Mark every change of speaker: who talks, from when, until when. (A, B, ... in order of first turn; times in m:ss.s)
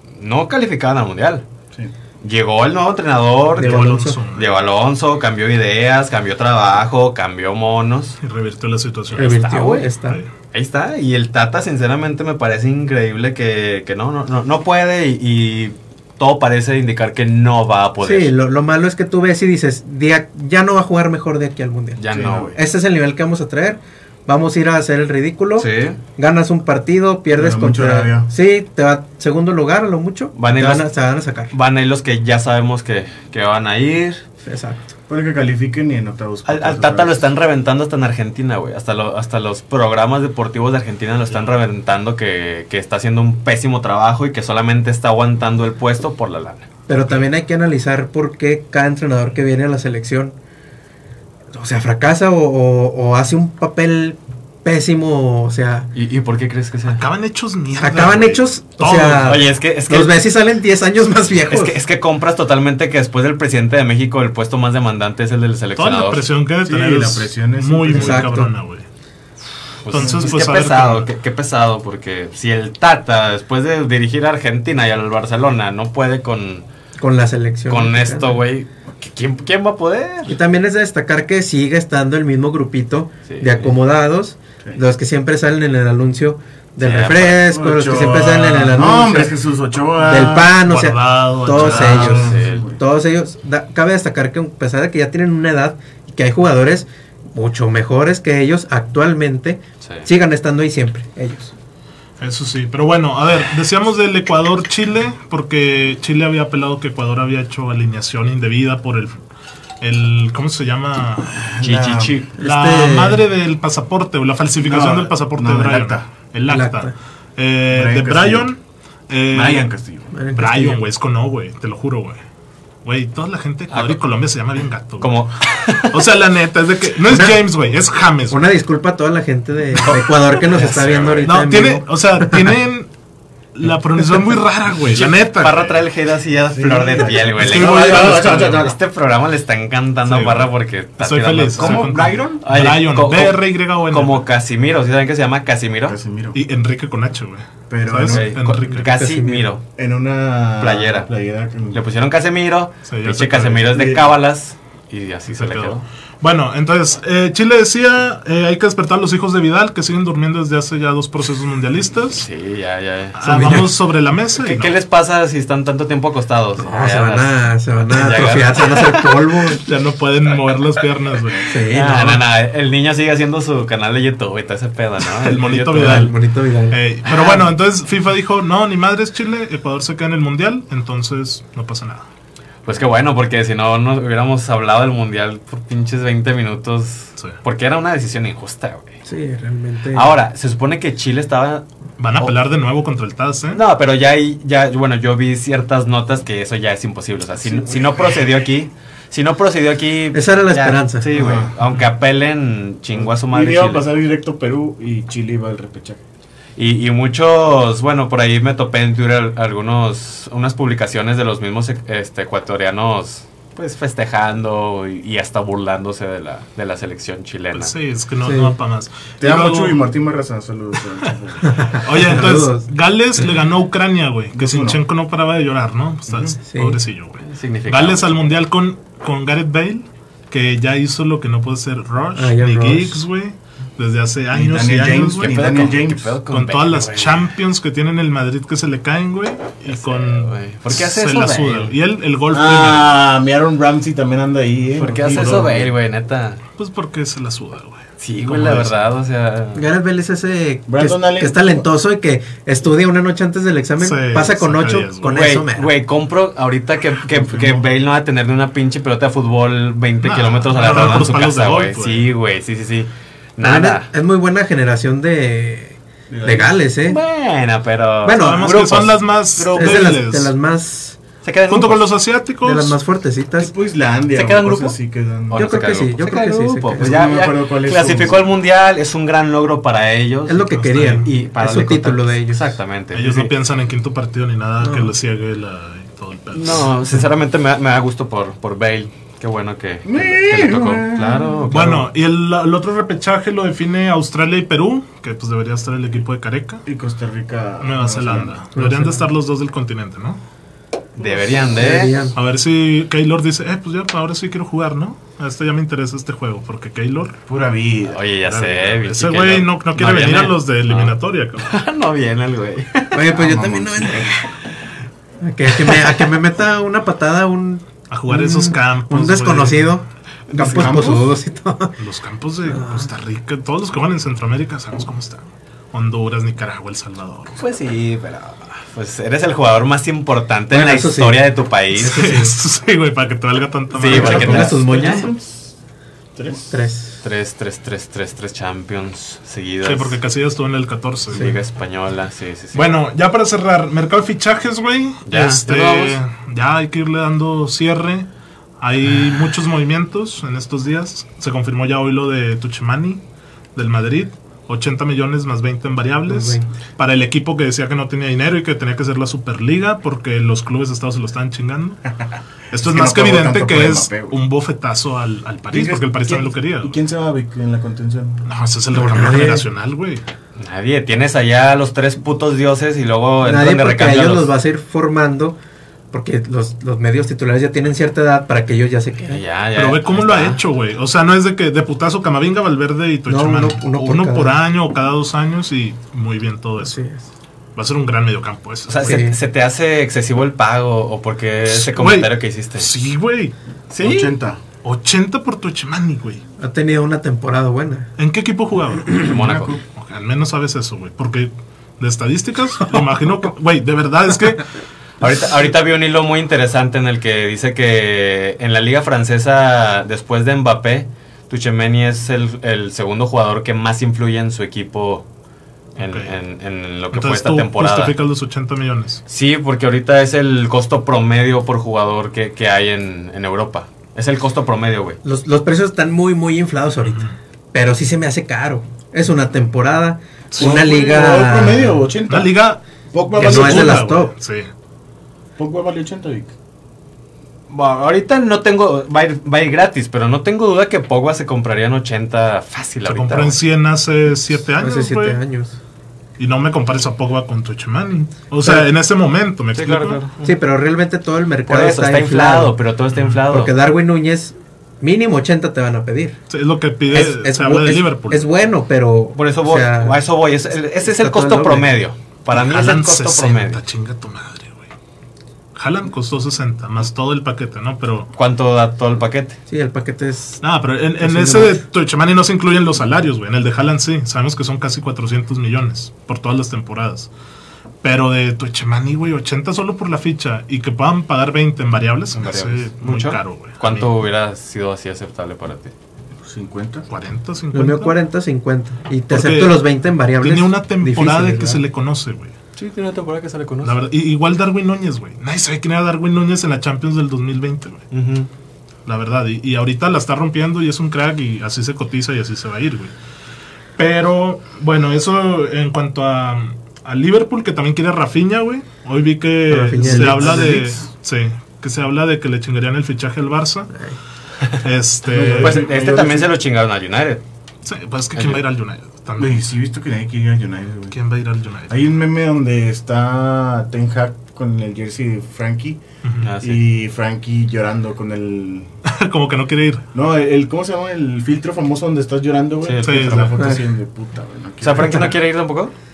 0:00.2-0:01.4 A
0:02.2-0:08.2 A
0:03.6-0:04.2 B
0:03.6-0:04.6 C
0:08.2-0:09.4 C
0:09.1-0:09.9 A
0:09.2-0:10.2 B
0:10.5-0:18.3 A
0:18.0-0:22.0 B
0:22.0-0:22.5 A
0:22.1-0:22.6 D
0:22.5-0:31.5 B
0:25.6-0:26.0 A
0:27.4-0:28.3 D
0:30.4-0:30.9 A
0:31.5-0:34.2 A
0:34.4-0:34.9 B
0:35.1-0:37.3 D
0:36.5-0:46.7 A
0:46.9-0:50.4 B
0:51.5-0:55.9 B
0:56.0-0:57.0 A
0:56.9-0:59.4 C
0:57.8-1:01.8 B
0:59.2-1:00.2 A
1:01.4-1:06.3 A
1:05.8-1:08.9 C
1:06.6-1:08.4 D
1:07.9-1:08.5 B
1:09.8-1:16.7 A
1:09.9-1:11.1 C
1:10.0-1:10.3 D
1:17.0-1:18.4 B
1:17.7-1:20.4 A
1:20.3-1:29.4 B
1:23.3-1:23.7 A
1:26.8-1:27.4 A
1:27.4-1:30.6 D
1:30.0-1:41.5 B
1:30.6-1:32.3 C
1:31.6-1:32.8 D
1:31.8-1:32.6 A
1:42.2-1:49.2 C
1:49.8-1:51.4 C
1:51.3-1:52.2 D
1:51.6-1:52.3 A
1:52.4-1:53.2 B
1:52.4-1:59.7 C
1:54.6-1:56.1 D
1:56.5-1:56.9 B
1:57.7-1:58.5 D
1:59.3-2:00.1 D
2:00.1-2:00.8 B
2:00.4-2:02.2 C
2:02.8-2:05.2 C
2:03.7-2:04.0 A
2:05.0-2:06.0 A
2:05.9-2:08.4 C
2:07.1-2:07.4 B
2:08.3-2:12.5 B
2:09.8-2:11.3 A
2:11.2-2:12.9 C
2:13.6-2:15.8 C
2:14.9-2:26.0 A
2:16.5-2:18.8 D
2:17.4-2:18.6 C
2:20.1-2:24.3 C
2:21.6-2:22.4 D
2:25.9-2:26.4 D
2:26.3-2:28.9 C
2:27.7-2:28.3 D
2:28.1-2:29.6 A
2:28.7-2:29.5 B
2:29.8-2:31.8 D
2:30.6-2:31.1 A
2:31.7-2:35.8 A
2:32.9-2:33.7 C
2:33.7-2:34.1 D
2:35.3-2:42.3 C
2:42.1-2:43.7 A
2:43.2-2:44.7 C
2:43.2-2:43.7 B
2:44.4-2:47.3 A
2:46.6-2:49.6 B
2:47.9-2:49.3 A
2:49.6-2:51.6 C
2:51.5-2:52.2 B
2:51.7-2:56.1 A
2:55.1-2:56.1 C
2:55.7-2:56.8 B
2:56.7-3:02.1 C
2:57.1-2:57.5 A
3:02.7-3:09.0 A
3:09.0-3:10.2 B
3:09.9-3:11.7 A
3:12.0-3:13.6 C
3:13.5-3:23.8 A
3:17.4-3:18.3 D
3:20.1-3:21.1 B
3:21.1-3:21.6 D
3:22.9-3:26.0 D
3:26.6-3:37.7 A
3:37.5-3:39.8 C
3:38.2-3:38.6 B
3:39.2-3:42.1 D
3:41.4-3:42.7 B
3:41.8-3:55.4 C
3:44.3-3:44.8 D
3:46.1-3:46.4 D
3:46.5-3:46.8 B
3:47.2-3:48.2 A
3:52.2-3:53.0 B
3:54.3-3:56.2 D
3:55.2-3:57.3 A
3:56.3-4:02.9 C
3:59.7-4:01.8 A
4:02.3-4:05.7 D
4:04.8-4:06.4 A
4:05.0-4:05.6 C
4:06.6-4:08.8 C
4:08.0-4:09.7 A
4:09.6-4:15.7 B
4:10.7-4:11.6 D
4:13.8-4:15.2 C
4:15.0-4:23.9 A
4:17.1-4:17.7 D
4:20.0-4:22.1 C
4:23.4-4:27.0 B
4:26.1-4:26.6 D
4:26.8-4:29.0 A
4:28.0-4:28.6 B
4:28.2-4:30.3 C
4:29.5-4:31.0 B
4:31.2-4:31.8 A
4:31.5-4:32.8 C
4:32.4-4:33.5 B
4:33.4-4:35.5 D
4:34.1-4:34.8 A
4:35.3-4:43.3 A
4:35.3-4:37.1 B
4:36.8-4:38.4 D
4:40.3-4:42.6 B
4:40.5-4:41.1 C
4:42.9-4:46.7 C
4:44.6-4:44.9 B
4:46.3-4:51.9 A
4:49.8-4:51.5 D
4:51.5-4:56.6 C
4:56.6-4:58.4 D
4:57.6-5:00.2 C
4:58.6-4:59.0 B
5:01.0-5:01.4 D
5:01.0-5:02.1 A
5:01.6-5:02.2 B
5:02.2-5:07.2 C
5:07.3-5:08.0 D
5:07.9-5:13.1 A
5:08.2-5:11.6 C
5:12.9-5:14.2 B
5:13.1-5:14.2 D
5:15.2-5:21.8 B
5:15.6-5:16.0 A
5:17.9-5:19.8 C
5:20.3-5:21.0 A
5:20.4-5:21.1 D
5:21.8-5:27.4 C
5:22.5-5:22.9 B
5:27.4-5:32.0 A
5:30.5-5:31.3 B
5:31.8-5:34.6 C
5:31.8-5:32.4 B
5:33.7-5:35.0 A
5:33.9-5:35.5 D
5:33.9-5:35.1 B
5:36.2-5:36.5 D
5:36.5-5:37.0 B
5:37.0-5:40.0 A
5:39.6-5:41.3 C
5:41.1-5:42.6 A
5:42.5-5:48.1 C
5:45.1-5:46.0 A
5:48.6-5:53.0 C
5:53.6-6:01.8 C
5:56.1-5:56.5 B
6:02.5-6:06.8 C
6:02.5-6:04.2 D
6:05.5-6:08.3 D
6:08.3-6:10.0 C
6:08.7-6:09.5 B
6:10.4-6:14.3 A
6:13.2-6:15.4 B
6:15.9-6:19.2 B
6:19.1-6:20.4 A
6:19.6-6:26.8 C
6:23.1-6:24.4 B
6:26.6-6:27.1 B
6:27.6-6:29.0 C
6:28.7-6:32.7 A
6:28.8-6:29.2 B
6:31.5-6:33.4 C
6:33.7-6:34.1 A
6:33.8-6:34.4 D
6:34.6-6:36.2 C
6:36.4-6:37.9 B
6:38.0-6:39.0 C
6:38.9-6:39.6 A
6:39.0-6:39.6 D
6:39.7-6:44.5 C
6:45.0-6:55.0 A
6:55.8-6:58.0 A
6:55.8-6:56.1 C
6:56.9-6:59.0 C
6:59.1-7:05.0 A
7:05.0-7:11.8 B
7:06.8-7:07.2 C
7:10.4-7:12.4 D
7:12.1-7:12.6 C
7:12.9-7:13.8 D
7:13.2-7:14.1 B
7:13.2-7:14.5 C
7:15.4-7:16.3 D
7:17.5-7:23.4 A
7:22.8-7:25.2 C
7:24.6-7:25.6 B
7:26.2-7:30.0 C
7:29.6-7:30.4 A
7:30.2-7:32.6 B
7:31.5-7:33.5 A
7:33.3-7:36.2 B
7:36.3-7:38.3 C
7:36.9-7:40.0 B
7:39.2-7:43.6 A
7:40.8-7:41.7 B
7:42.3-7:44.7 C
7:45.6-7:48.1 C
7:48.1-7:49.4 A
7:49.5-7:50.4 B
7:50.4-7:57.1 C
7:51.0-7:51.6 B
7:57.8-8:03.9 C
8:02.2-8:05.7 A
8:06.2-8:06.9 D
8:06.9-8:08.0 C
8:07.5-8:11.6 B
8:09.1-8:09.6 C
8:10.2-8:12.3 C
8:12.6-8:13.8 A
8:13.6-8:17.8 C
8:17.9-8:18.3 A
8:18.9-8:22.9 C
8:23.8-8:33.7 C
8:29.5-8:30.6 B
8:29.8-8:30.8 D
8:34.6-8:35.7 C
8:35.1-8:36.3 D
8:35.4-8:37.2 A
8:37.6-8:39.5 C
8:39.2-8:41.0 D
8:40.9-8:41.8 C
8:41.7-8:45.8 D
8:46.0-8:46.3 C
8:46.2-8:46.6 A
8:46.4-8:48.7 D
8:48.8-8:49.9 C
8:49.9-8:55.2 D
8:52.6-8:53.2 A
8:52.8-8:53.4 C
8:53.4-8:53.7 B
8:54.6-8:55.7 A